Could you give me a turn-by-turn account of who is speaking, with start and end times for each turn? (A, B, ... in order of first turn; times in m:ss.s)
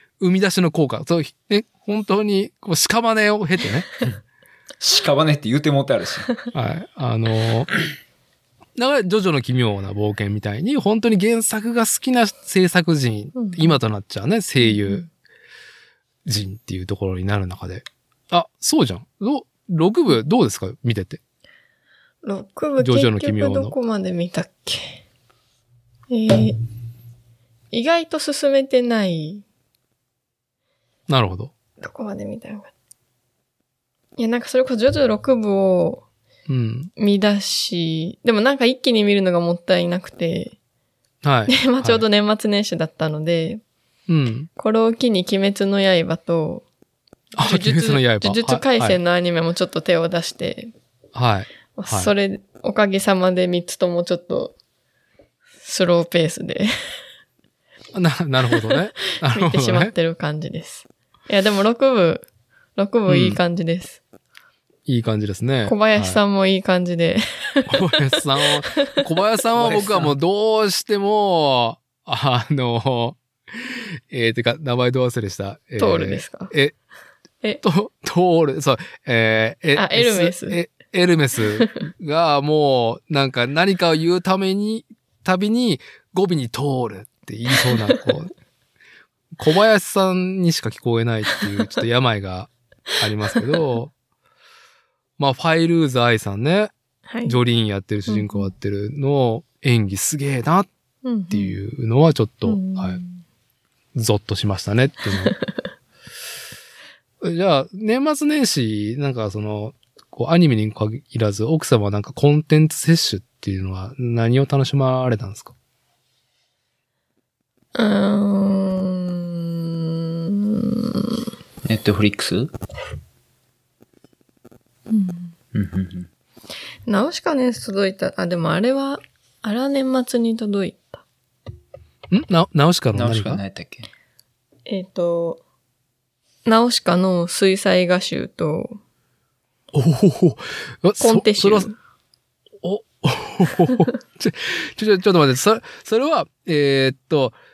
0:00.2-0:03.9 A
0:04.8-0:06.3 B
0:06.5-0:07.7 A
0:08.8-0:15.0 A
0:13.4-0:13.8 C
0:14.6-0:15.1 C
0:16.3-0:21.2 A
0:22.2-0:25.0 C
0:22.8-0:23.7 A
0:26.1-0:26.6 C
0:27.7-0:29.4 C
0:31.1-0:31.5 A
0:31.8-0:32.7 C
0:34.2-0:36.0 C
0:36.5-0:36.9 A
0:37.0-0:40.6 C
0:41.2-0:42.0 A
0:41.5-0:43.6 C
0:44.1-0:44.5 A
0:44.6-0:46.6 C
0:47.4-0:49.0 A
0:47.4-0:50.7 C
0:51.2-0:52.1 A
0:51.8-0:54.6 C
0:55.6-0:56.7 C
0:58.0-0:59.9 A
0:58.7-1:02.3 C
1:02.8-1:04.0 C
1:03.1-1:03.4 A
1:04.9-1:06.2 A
1:05.7-1:08.0 C
1:07.7-1:16.8 A
1:08.7-1:09.0 C
1:09.6-1:10.1 B
1:15.8-1:16.5 C
1:17.6-1:28.3 A
1:19.8-1:20.6 C
1:27.6-1:28.0 C
1:29.4-1:33.9 A
1:35.2-1:36.7 A
1:37.1-1:37.4 C
1:37.2-1:40.7 A
1:38.1-1:38.5 C
1:41.0-1:41.6 C
1:41.3-1:43.0 A
1:42.5-1:43.2 C
1:44.0-1:45.3 A
1:45.2-1:45.6 C
1:47.2-1:55.5 A
1:57.8-2:01.3 C
2:01.7-2:02.5 B
2:04.9-2:05.3 C
2:05.5-2:06.1 B
2:06.9-2:11.0 C
2:12.1-2:13.4 A
2:12.9-2:13.9 B
2:14.7-2:15.4 C
2:16.5-2:18.8 C
2:19.7-2:21.7 A
2:21.0-2:21.8 C
2:22.6-2:27.4 A